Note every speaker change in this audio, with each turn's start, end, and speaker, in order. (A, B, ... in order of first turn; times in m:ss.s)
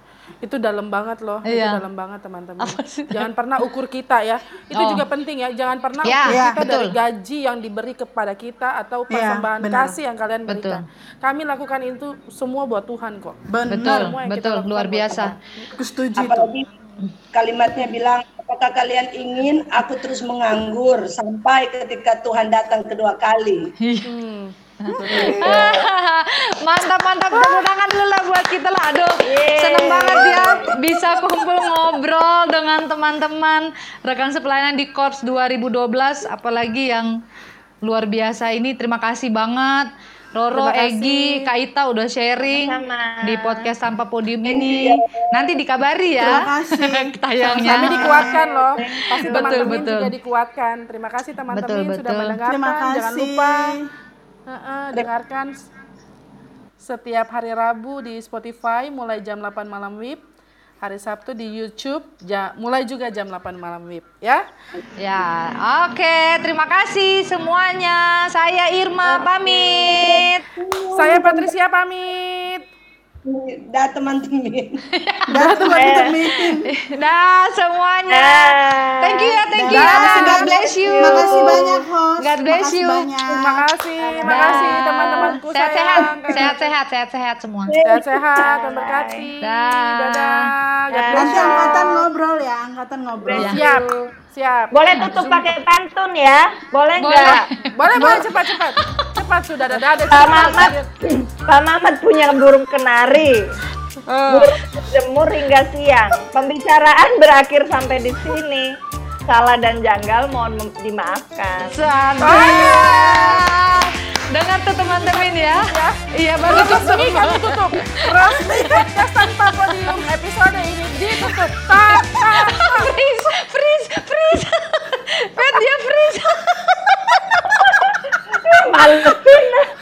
0:00.4-0:15.4 A
0:01.4-0:01.8 B
0:02.6-0:03.3 B
0:04.7-0:05.1 B
0:06.0-0:07.0 B
0:06.3-0:06.6 C
0:09.1-0:10.0 C
0:10.5-0:10.8 B
0:13.5-0:14.2 C
0:13.7-0:15.4 B
0:15.8-0:16.5 C
0:16.2-0:16.6 D
0:17.3-0:23.6 D
0:23.8-0:24.1 B
0:24.1-0:24.5 A
0:24.8-0:37.1 B
0:25.0-0:25.8 D
0:25.0-0:25.8 E
0:29.2-0:30.8 E
0:37.8-0:48.2 B
0:40.5-0:41.5 A
0:42.5-0:43.7 E
0:44.4-0:45.3 D
0:46.1-0:48.3 C
0:47.6-0:53.8 A
0:47.8-0:49.9 E
0:49.2-0:50.1 B
0:51.5-0:52.4 B
0:52.4-0:53.9 C
0:54.5-0:55.7 A
0:56.8-1:00.2 A
1:00.8-1:04.4 A
1:05.0-1:10.4 B
1:09.1-1:10.1 E
1:09.8-1:11.5 D
1:10.9-1:12.6 A
1:13.2-1:14.8 D
1:14.9-1:15.6 B
1:15.3-1:16.7 C
1:15.4-1:16.0 A
1:15.8-1:16.2 E
1:16.2-1:23.1 B
1:18.1-1:20.2 E
1:19.6-1:23.7 C
1:20.0-1:21.6 D
1:21.3-1:21.6 E
1:23.3-1:26.6 A
1:24.0-1:25.3 E
1:24.2-1:27.8 B
1:26.2-1:26.6 E
1:27.7-1:29.3 E
1:27.8-1:32.0 A
1:29.4-1:30.5 B
1:30.9-1:32.1 E
1:31.1-1:33.7 C
1:33.2-1:34.0 E
1:33.3-1:33.6 B
1:33.4-1:35.5 A
1:34.7-1:37.4 E
1:35.0-1:35.3 B
1:37.0-1:39.1 B
1:37.8-1:40.9 A
1:40.1-1:43.5 E
1:40.3-1:40.6 B
1:44.1-1:44.6 A
1:44.3-1:52.8 E
1:51.6-1:58.8 B
1:52.2-1:53.4 A
1:54.9-2:03.0 A
1:58.5-1:59.1 C
2:01.2-2:07.5 B
2:08.3-2:09.7 E